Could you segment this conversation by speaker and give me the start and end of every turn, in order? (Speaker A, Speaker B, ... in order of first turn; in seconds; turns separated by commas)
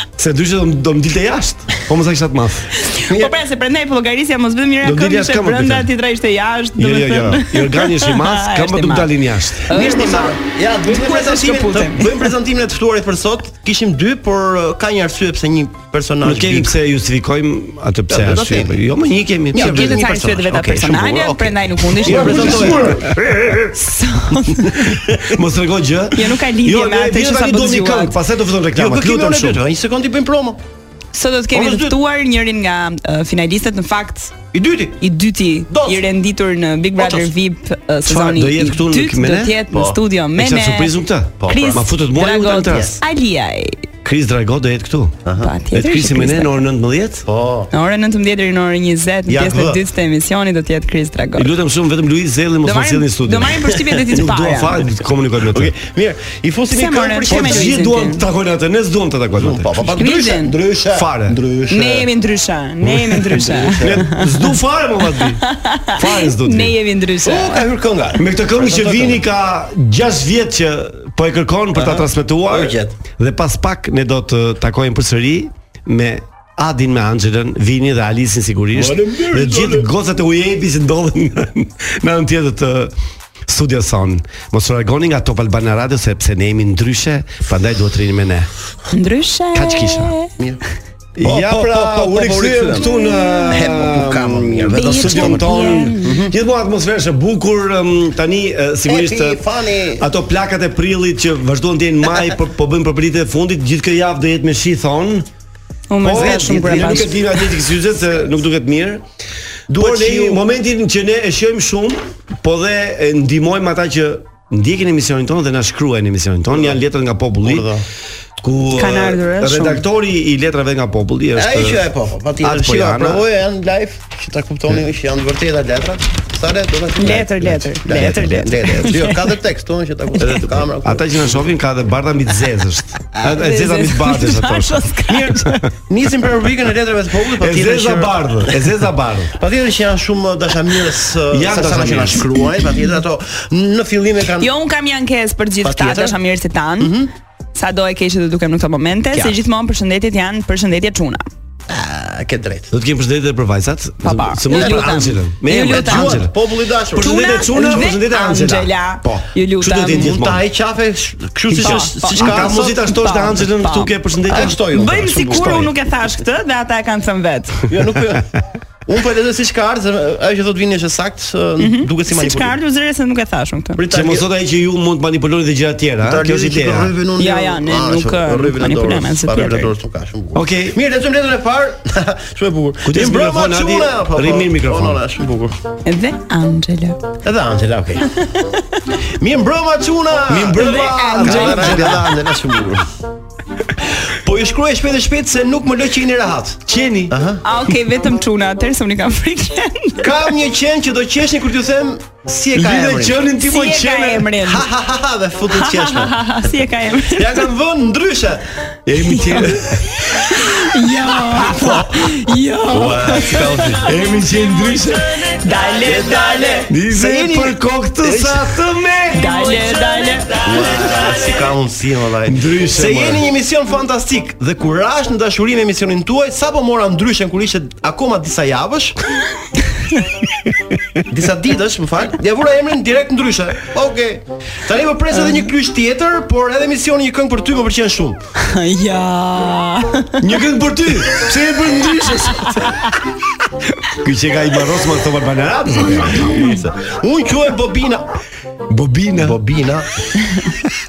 Speaker A: 0.2-2.7, Speaker B: 2.8-12.3, Speaker A: 4.8-5.9, Speaker A: 6.8-9.7, Speaker C: 9.7-16.8, Speaker A: 16.2-19.9, Speaker C: 18.1-18.8, Speaker C: 19.5-23.1, Speaker B: 19.5-22.9, Speaker A: 22.0-23.8, Speaker B: 23.7-24.7, Speaker C: 24.5-25.4, Speaker A: 25.2-29.6, Speaker B: 26.1-28.1, Speaker C: 28.8-30.6, Speaker B: 31.1-34.4, Speaker C: 31.5-32.0, Speaker C: 34.5-35.0, Speaker B: 35.0-43.9, Speaker C: 35.7-36.0, Speaker C: 37.0-37.3, Speaker A: 38.0-39.6, Speaker C: 39.7-40.0, Speaker A: 40.4-43.0, Speaker C: 41.4-41.9, Speaker C: 42.7-43.0, Speaker A: 44.0-45.2, Speaker C: 45.2-45.5, Speaker B: 45.4-46.6, Speaker A: 45.7-47.2, Speaker C: 47.2-47.7, Speaker B: 47.7-51.5, Speaker C: 49.3-49.8, Speaker A: 51.4-55.7, Speaker B: 52.6-54.9, Speaker C: 55.4-57.8, Speaker B: 56.7-58.2, Speaker A: 57.3-59.7, Speaker C: 59.3-62.1, Speaker B: 60.0-60.5, Speaker A: 60.9-61.4, Speaker B: 61.7-64.5, Speaker A: 62.8-65.4, Speaker C: 63.1-64.1, Speaker B: 65.2-67.6, Speaker A: 65.9-66.8, Speaker C: 67.2-69.2, Speaker A: 68.2-82.9, Speaker C: 71.8-73.0, Speaker C: 78.7-79.9, Speaker A: 83.5-88.5, Speaker B: 88.9-90.3, Speaker A: 89.5-90.1, Speaker A: 91.2-99.4, Speaker C: 91.2-96.3, Speaker B: 92.9-93.4, Speaker B: 94.7-96.3, Speaker C: 98.8-100.0, Speaker A: 100.0-105.3, Speaker B: 105.9-107.5, Speaker A: 106.0-109.0, Speaker C: 106.1-107.2, Speaker C: 109.7-110.4, Speaker A: 109.7-117.7, Speaker C: 117.4-117.8, Speaker A: 118.4-121.8, Speaker B: 118.7-119.8, Speaker C: 121.3-131.5, Speaker A: 122.4-123.2, Speaker B: 127.0-129.3, Speaker A: 130.2-134.9, Speaker B: 133.3-135.6, Speaker C: 135.1-138.7, Speaker A: 137.4-139.3, Speaker C: 139.3-144.5, Speaker A: 141.3-142.4, Speaker B: 144.4-146.9, Speaker C: 145.6-146.2, Speaker C: 146.8-147.1, Speaker B: 147.5-151.3, Speaker C: 151.7-152.7, Speaker A: 152.7-156.4, Speaker B: 154.0-156.2, Speaker C: 154.5-157.9, Speaker A: 156.9-160.4, Speaker B: 157.0-160.1, Speaker C: 159.9-162.8, Speaker A: 161.5-164.6, Speaker B: 161.6-167.6, Speaker C: 164.3-165.7, Speaker A: 165.3-165.7, Speaker C: 167.7-172.5, Speaker B: 171.6-173.8, Speaker C: 173.8-174.3, Speaker A: 173.9-176.9, Speaker C: 176.0-185.5, Speaker B: 177.2-179.7, Speaker A: 180.3-180.8, Speaker A: 182.8-185.0, Speaker B: 185.9-187.0, Speaker C: 187.2-188.2, Speaker B: 188.2-188.8, Speaker C: 189.0-192.9, Speaker A: 190.3-192.1, Speaker B: 190.5-192.1, Speaker C: 193.8-197.4, Speaker A: 196.7-197.2, Speaker B: 197.4-200.3, Speaker C: 200.0-203.2, Speaker A: 202.5-204.3, Speaker B: 203.4-204.6, Speaker C: 204.4-206.2, Speaker B: 205.5-207.5, Speaker C: 207.1-208.4, Speaker A: 208.9-210.0, Speaker B: 209.0-209.5, Speaker B: 210.0-213.8, Speaker C: 211.5-212.0, Speaker C: 212.7-213.9, Speaker A: 213.8-215.3, Speaker B: 215.4-216.7, Speaker C: 215.7-218.6, Speaker A: 216.7-219.4, Speaker B: 219.1-220.7, Speaker C: 220.4-229.0, Speaker A: 222.2-223.2, Speaker C: 231.1-238.2, Speaker B: 235.2-235.4, Speaker B: 238.4-240.2, Speaker A: 240.2-242.7, Speaker B: 242.4-242.7, Speaker A: 243.9-246.4, Speaker C: 246.1-248.1, Speaker A: 248.7-249.4, Speaker C: 249.2-249.9